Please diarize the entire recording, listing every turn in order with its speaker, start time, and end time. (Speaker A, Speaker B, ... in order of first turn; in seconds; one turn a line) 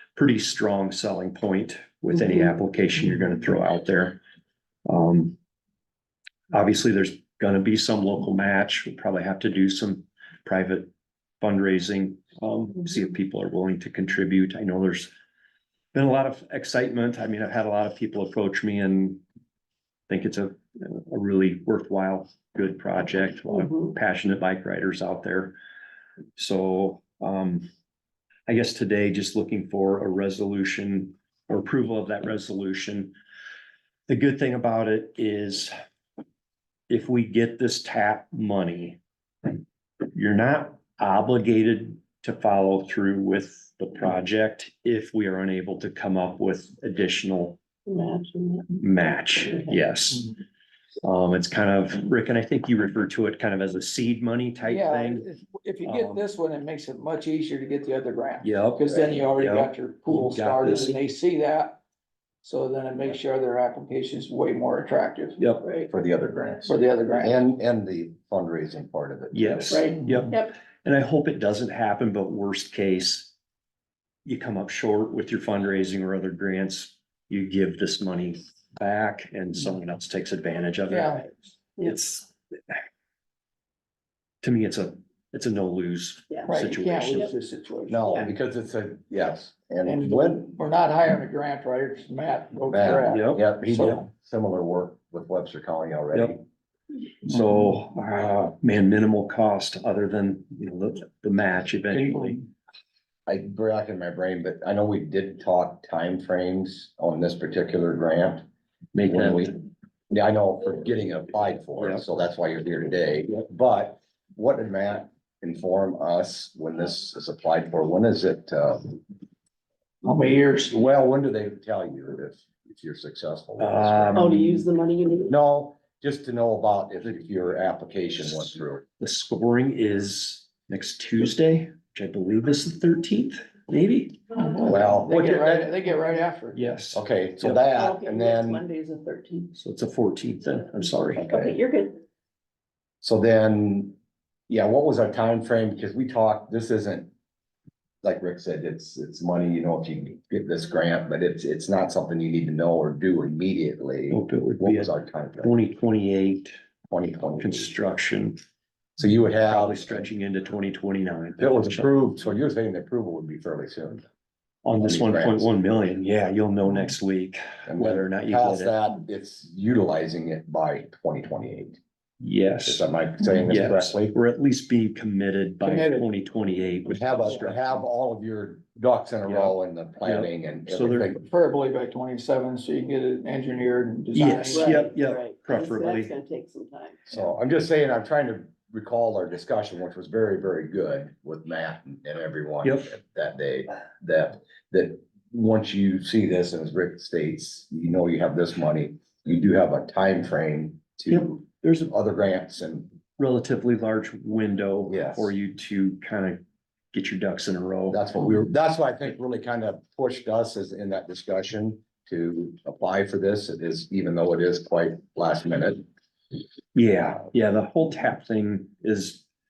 Speaker A: 0.1-4.2
Speaker A: 4.8-5.3
Speaker A: 6.5-10.9
Speaker A: 11.4-15.1
Speaker A: 15.9-19.2
Speaker A: 20.1-25.6
Speaker B: 23.5-23.9
Speaker A: 26.4-27.7
Speaker A: 28.5-33.1
Speaker A: 34.1-35.7
Speaker A: 36.9-39.0
Speaker A: 40.1-47.6
Speaker B: 47.9-48.8
Speaker A: 48.8-50.3
Speaker A: 51.0-55.3
Speaker C: 54.6-61.8
Speaker A: 55.8-56.2
Speaker A: 58.4-60.9
Speaker C: 62.4-65.4
Speaker A: 65.4-65.7
Speaker B: 65.6-65.9
Speaker D: 65.9-69.9
Speaker C: 66.6-67.4
Speaker A: 69.3-73.3
Speaker B: 69.7-70.5
Speaker A: 74.2-82.7
Speaker C: 80.9-81.2
Speaker A: 84.4-87.3
Speaker B: 86.3-86.5
Speaker C: 86.5-88.2
Speaker D: 87.9-90.5
Speaker C: 89.8-94.0
Speaker D: 92.7-96.4
Speaker A: 93.0-94.0
Speaker A: 97.2-102.4
Speaker D: 103.3-108.4
Speaker A: 108.9-109.5
Speaker D: 109.0-119.0
Speaker A: 111.8-112.0
Speaker C: 120.0-120.8
Speaker D: 120.7-124.3
Speaker A: 123.6-124.7
Speaker B: 124.1-125.3
Speaker D: 125.3-128.8
Speaker A: 129.0-134.8
Speaker D: 134.6-135.7
Speaker C: 134.9-136.7
Speaker A: 136.5-137.6
Speaker D: 136.9-138.6
Speaker B: 137.7-139.5
Speaker A: 139.5-141.4
Speaker B: 141.2-142.0
Speaker D: 143.0-143.9
Speaker D: 144.5-147.1
Speaker D: 148.0-155.6
Speaker A: 154.1-156.5
Speaker D: 156.9-157.7
Speaker A: 157.4-158.4
Speaker D: 159.0-160.1
Speaker A: 159.4-161.9
Speaker D: 161.4-164.0
Speaker A: 164.6-168.7
Speaker D: 164.8-165.5
Speaker D: 167.7-171.8
Speaker A: 172.2-172.8
Speaker D: 172.7-174.2
Speaker A: 173.4-177.8
Speaker C: 175.6-176.1
Speaker D: 176.9-181.2
Speaker A: 179.2-181.2
Speaker C: 181.3-184.8
Speaker A: 184.1-186.1
Speaker B: 184.4-187.0
Speaker D: 187.1-202.9
Speaker A: 192.6-192.9
Speaker A: 201.1-201.9
Speaker A: 203.2-206.4
Speaker D: 204.9-205.3
Speaker A: 206.9-208.0
Speaker D: 207.9-215.8
Speaker A: 216.7-219.2